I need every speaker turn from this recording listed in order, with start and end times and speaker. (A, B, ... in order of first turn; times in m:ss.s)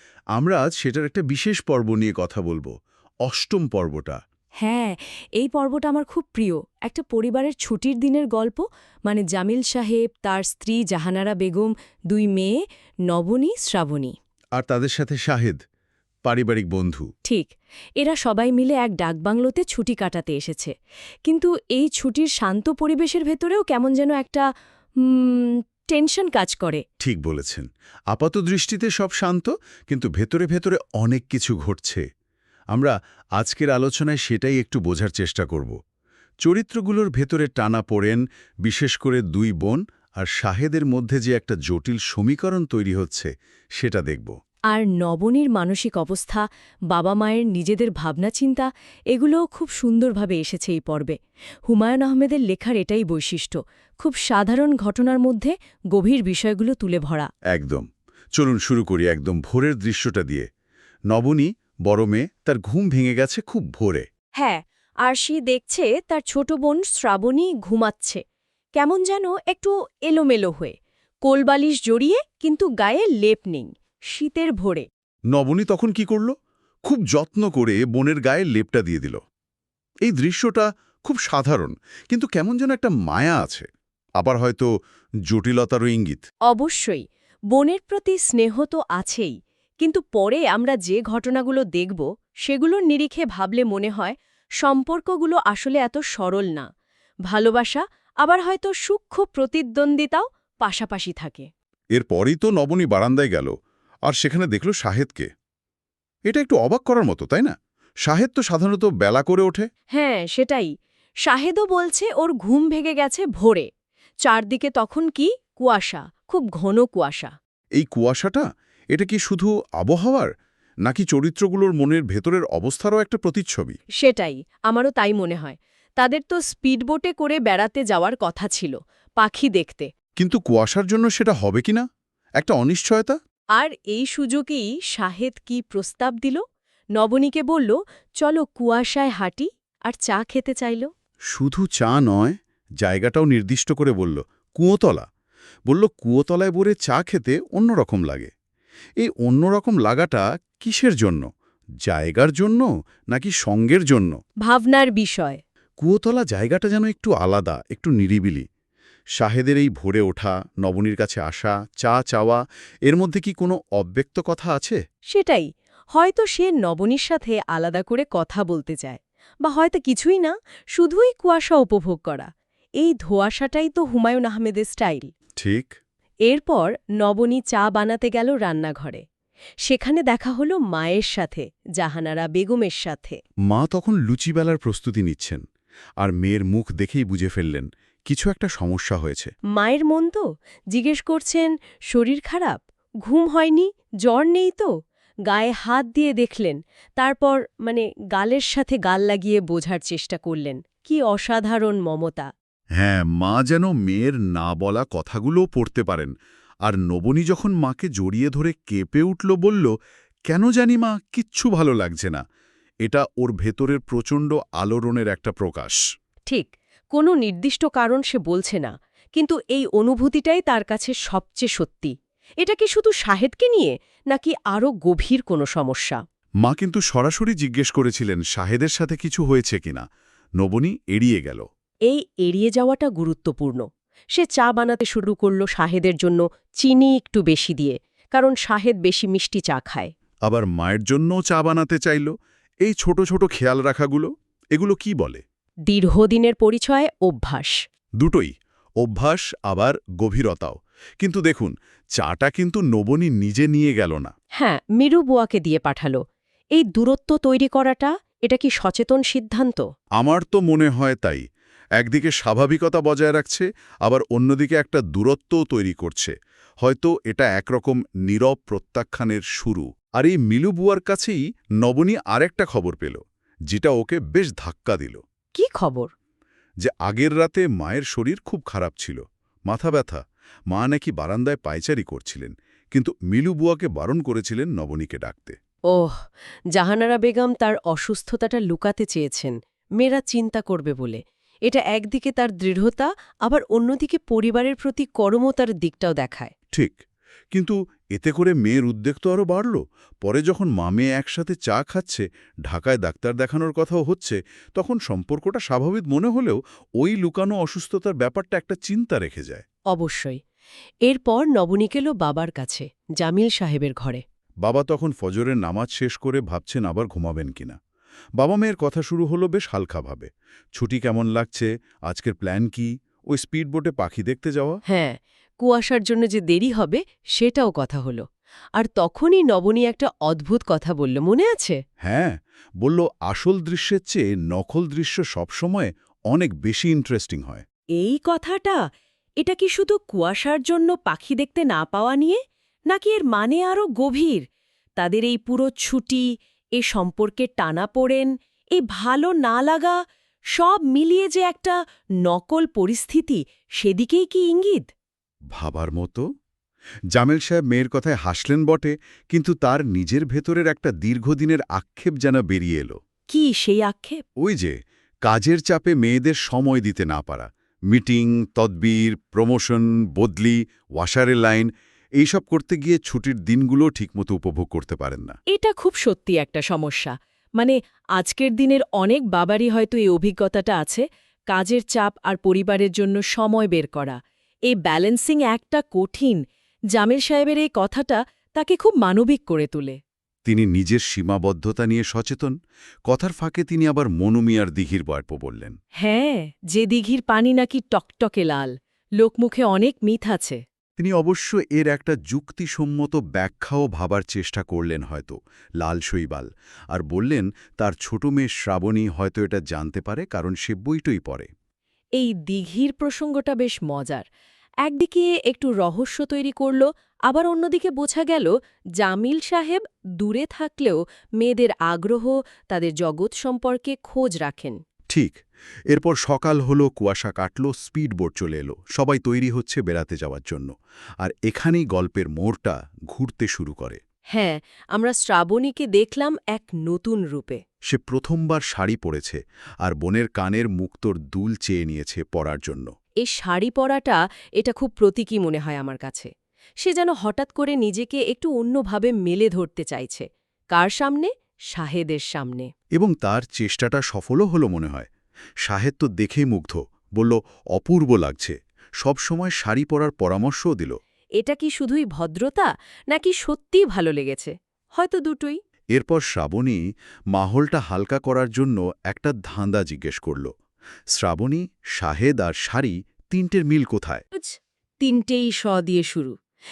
0:00.3-0:02.7 A
0:03.2-0:04.2 A
0:04.6-0:12.6 B
0:13.1-0:14.1 B
0:14.5-0:15.6 A
0:16.2-0:17.1 A
0:17.2-0:20.7 B
0:21.2-0:24.4 B
0:25.0-0:26.8 B
0:27.0-0:32.0 A
0:32.7-0:35.8 A
0:36.4-0:44.3 A
0:44.7-0:51.2 B
0:51.7-0:57.3 B
0:57.5-1:00.5 A
1:01.1-1:04.0 A
1:04.4-1:08.2 B
1:08.8-1:14.8 B
1:15.3-1:16.3 A
1:16.8-1:19.2 A
1:20.0-1:23.7 A
1:24.2-1:24.7 A
1:25.3-1:26.2 A
1:26.5-1:36.6 B
1:37.3-1:41.5 B
1:41.9-1:43.5 A
1:44.0-1:45.3 A
1:46.3-1:49.7 A
1:49.9-1:50.7 B
1:51.2-1:53.6 B
1:54.2-1:57.3 B
1:57.8-2:00.3 A
2:00.8-2:03.8 A
2:04.0-2:09.9 B
2:10.2-2:11.8 A
2:12.4-2:13.2 A
2:13.6-2:16.4 B
2:17.0-2:20.9 B
2:21.3-2:25.0 A
2:25.7-2:28.3 A
2:29.0-2:31.3 A
2:31.8-2:34.2 A
2:34.4-2:35.4 B
2:35.8-2:38.4 A
2:39.2-2:44.8 A
2:45.1-2:52.3 B
2:52.8-2:55.1 B
2:55.4-2:55.7 A
2:56.3-2:59.0 B
2:59.6-3:03.2 B
3:03.5-3:05.4 A
3:06.0-3:09.3 A
3:09.5-3:14.7 B
3:15.3-3:22.3 B
3:22.8-3:26.1 A
3:26.6-3:29.7 A
3:30.3-3:32.2 A
3:32.8-3:35.8 A
3:36.3-3:46.0 B
3:46.4-3:49.8 A
3:50.4-3:51.4 A
3:51.9-3:59.9 B
4:00.2-4:02.1 A
4:02.6-4:05.2 A
4:05.7-4:07.6 B
4:08.0-4:14.1 A
4:14.4-4:16.0 B
4:16.5-4:19.6 B
4:20.0-4:21.2 A
4:21.8-4:35.0 A
4:35.4-4:35.9 B
4:36.6-4:45.4 A
4:45.7-4:46.0 B
4:46.5-4:56.3 B
4:56.5-4:56.8 A
4:57.3-5:09.4 A
5:09.7-5:10.2 B
5:10.8-5:14.0 B
5:14.4-5:17.6 A
5:18.2-5:24.6 A
5:24.7-5:28.0 B
5:28.6-5:31.6 B
5:31.8-5:37.4 A
5:37.8-5:38.6 B
5:39.2-5:42.2 B
5:42.7-5:44.2 B
5:44.8-5:46.0 B
5:46.6-5:49.8 B
5:50.3-5:54.7 B
5:55.3-5:56.0 A
5:56.9-6:02.7 A
6:03.1-6:04.0 B
6:04.2-6:15.2 A
6:15.3-6:24.0 B
6:24.5-6:26.2 B
6:26.7-6:29.8 B
6:30.2-6:32.3 A
6:32.9-6:35.6 A
6:35.8-6:40.4 B
6:40.8-6:51.3 A
6:52.0-6:54.1 B
6:54.6-7:04.6 B
7:04.9-7:13.8 A
7:14.1-7:17.4 B
7:17.7-7:22.7 A
7:23.0-7:26.1 B
7:26.6-7:32.5 B
7:32.8-7:34.9 A
7:35.4-7:40.8 A
7:41.2-7:45.4 B
7:45.7-7:46.6 A
7:47.1-7:50.3 A
7:50.9-7:54.0 A
7:54.1-7:56.1 B